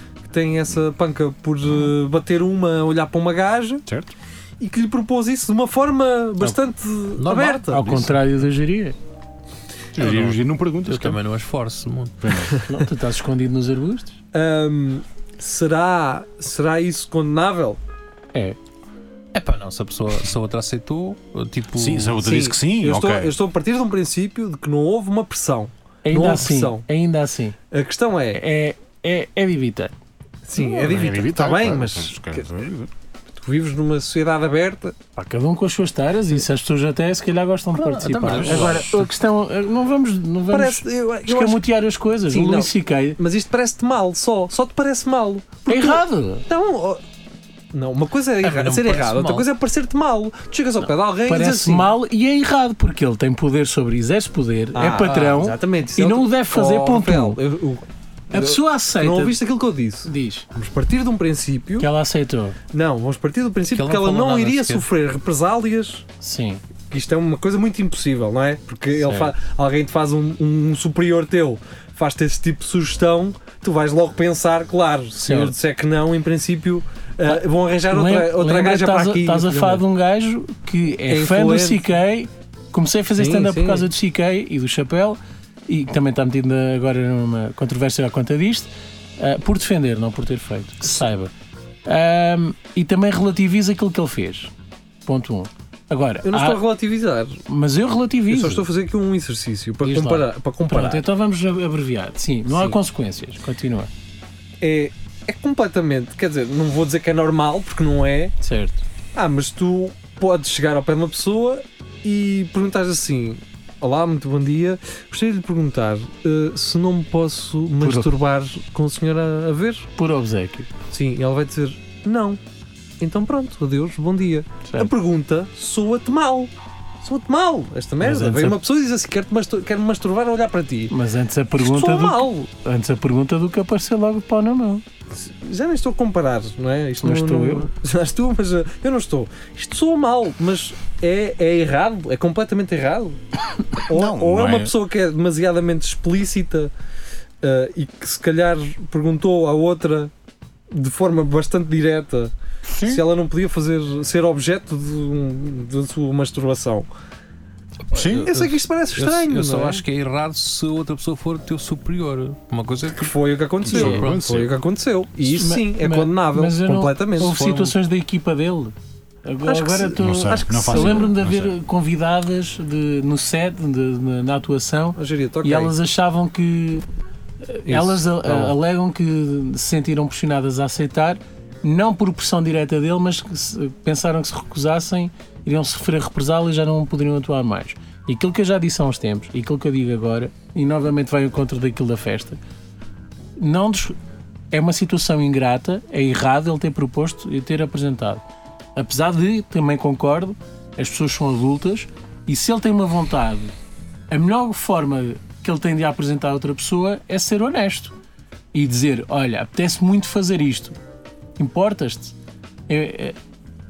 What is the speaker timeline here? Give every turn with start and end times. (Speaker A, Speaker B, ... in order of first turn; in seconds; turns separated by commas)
Speaker A: 0.2-3.8, Speaker B: 3.9-4.1, Speaker A: 4.6-8.1, Speaker C: 7.2-8.1, Speaker D: 7.7-8.9, Speaker B: 9.9-11.2, Speaker C: 10.0-12.3, Speaker B: 12.2-12.6, Speaker D: 12.6-14.2, Speaker A: 14.3-17.8, Speaker C: 19.3-22.2, Speaker B: 21.7-23.3, Speaker A: 22.2-26.9, Speaker D: 26.0-27.6, Speaker A: 27.7-28.4, Speaker D: 28.3-29.9, Speaker A: 30.4-32.5, Speaker B: 30.6-32.9, Speaker A: 33.3-35.0, Speaker D: 35.1-43.2, Speaker C: 37.7-39.1, Speaker B: 38.3-38.9, Speaker A: 40.5-41.7, Speaker A: 42.3-47.0, Speaker D: 45.7-46.5, Speaker A: 47.7-51.9, Speaker C: 48.4-49.5, Speaker D: 50.8-57.4, Speaker A: 54.7-61.9, Speaker D: 58.3-59.4, Speaker D: 60.0-60.5, Speaker D: 61.8-62.6, Speaker A: 62.7-66.0, Speaker C: 63.7-64.9, Speaker D: 66.2-66.6, Speaker A: 66.9-79.8, Speaker D: 69.0-69.3, Speaker D: 75.2-75.5, Speaker D: 77.2-91.3, Speaker A: 81.1-81.9, Speaker A: 83.2-83.9, Speaker D: 91.8-94.5, Speaker D: 95.0-96.6, Speaker A: 96.2-97.4, Speaker D: 97.5-98.7, Speaker A: 98.3-101.0, Speaker D: 99.8-103.9, Speaker A: 102.5-102.8, Speaker A: 104.6-108.3, Speaker D: 108.4-108.8, Speaker A: 109.1-119.9, Speaker D: 117.8-118.1, Speaker D: 120.0-120.7, Speaker A: 120.9-122.4, Speaker A: 123.0-130.9, Speaker D: 124.6-124.9, Speaker D: 128.0-128.6, Speaker D: 130.9-134.8, Speaker A: 131.6-132.5, Speaker A: 135.1-143.2, Speaker D: 137.0-137.7, Speaker A: 143.8-146.7, Speaker B: 143.9-144.7, Speaker A: 147.4-150.1, Speaker A: 150.7-156.9, Speaker B: 152.7-153.0, Speaker C: 157.9-163.1, Speaker B: 157.9-158.3, Speaker A: 157.9-159.8, Speaker A: 162.9-167.4, Speaker B: 163.6-164.5, Speaker C: 163.7-164.3, Speaker D: 165.3-168.7, Speaker C: 167.2-167.7, Speaker D: 169.2-176.9, Speaker A: 169.4-171.1, Speaker B: 169.9-171.5, Speaker A: 174.9-175.8, Speaker D: 177.4-192.4, Speaker A: 177.7-178.5, Speaker D: 193.4-193.9, Speaker D: 194.5-198.2, Speaker D: 198.8-203.5, Speaker D: 204.1-207.9, Speaker D: 208.5-210.8, Speaker D: 211.4-212.2, Speaker D: 212.7-213.2